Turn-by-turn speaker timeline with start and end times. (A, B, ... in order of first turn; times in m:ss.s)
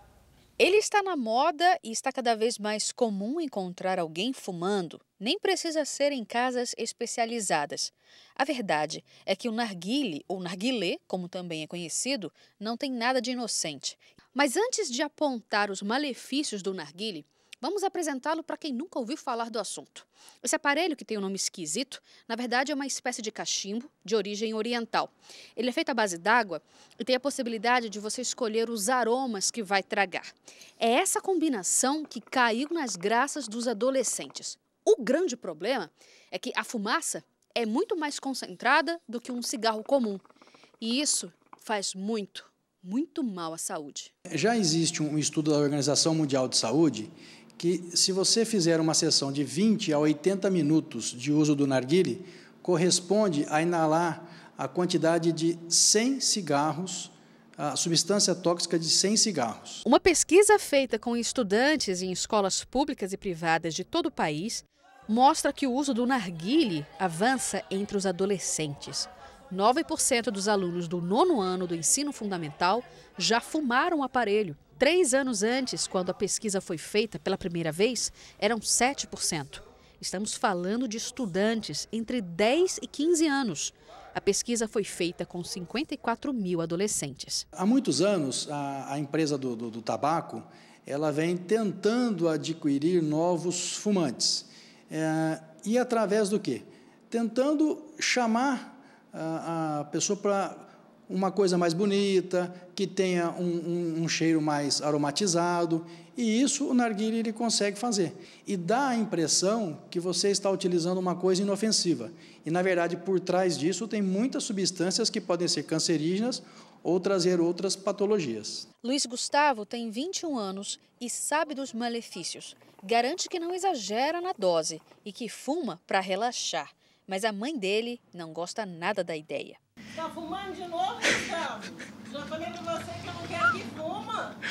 0:00.6-0:40.2 A
0:40.8-0:44.1 A
0:44.3-0:59.8 B
0:59.8-1:27.4 A
1:27.6-1:58.7 B
1:58.8-2:09.6 A
2:10.0-2:14.4 C